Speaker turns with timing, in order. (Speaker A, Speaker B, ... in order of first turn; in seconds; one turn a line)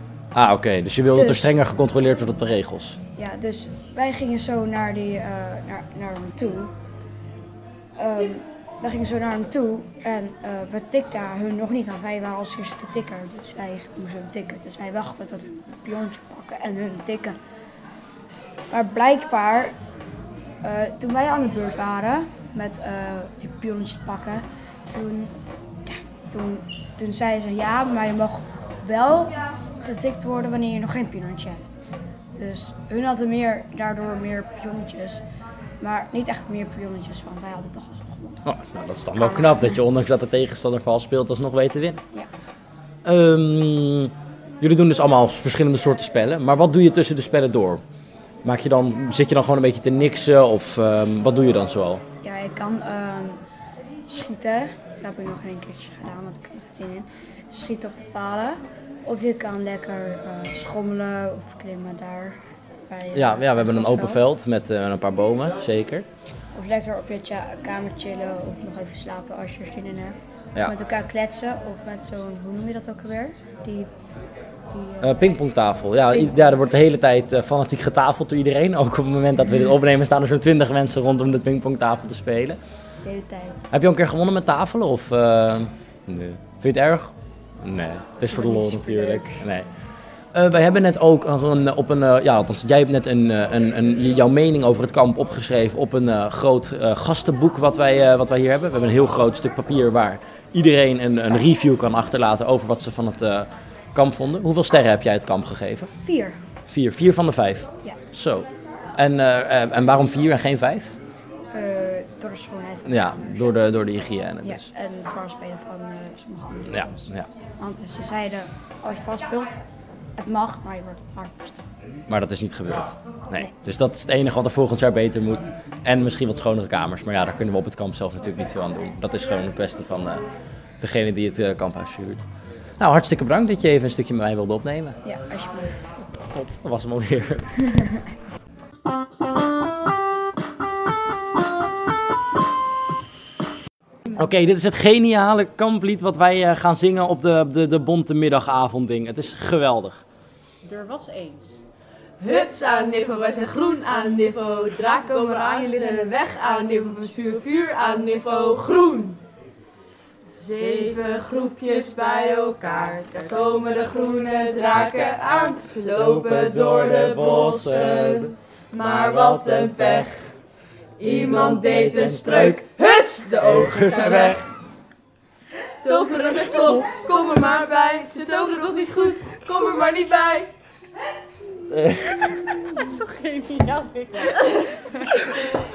Speaker A: 0.3-3.0
Speaker B: 1.1-1.5
Speaker B: 3.1-6.7
Speaker B: 8.0-17.4
Speaker B: 18.7-19.7
Speaker B: 20.6-25.3
Speaker B: 25.9-31.8
Speaker B: 32.3-35.2
Speaker B: 35.8-38.4
Speaker A: 38.4-42.0
Speaker B: 39.2-39.8
Speaker A: 43.0-47.8
Speaker A: 48.4-52.0
Speaker B: 52.2-53.4
Speaker B: 54.1-64.2
Speaker A: 63.1-66.0
Speaker B: 66.5-73.9
Speaker B: 74.7-75.2
Speaker A: 75.0-82.6
Speaker B: 83.0-83.6
Speaker A: 83.7-89.7
Speaker B: 88.3-89.4
Speaker A: 90.3-105.9
Speaker B: 106.0-106.4
Speaker A: 106.7-110.9
Speaker B: 111.5-113.5
Speaker A: 112.9-114.7
Speaker B: 114.4-119.6
Speaker A: 116.7-117.3
Speaker B: 120.2-121.6
Speaker A: 122.1-130.2
Speaker A: 130.8-132.3
Speaker A: 132.8-135.0
Speaker B: 135.0-136.2
Speaker A: 136.3-137.5
Speaker A: 144.1-150.0
Speaker C: 150.6-151.6
Speaker D: 152.2-159.2
Speaker D: 160.4-170.2
Speaker C: 160.5-160.9
Speaker A: 165.9-168.3
Speaker A: 168.9-170.1
Speaker D: 171.0-174.4
Speaker A: 171.0-172.6
Speaker A: 173.4-174.4
Speaker D: 175.8-180.5
Speaker A: 181.7-182.6
Speaker C: 182.7-184.9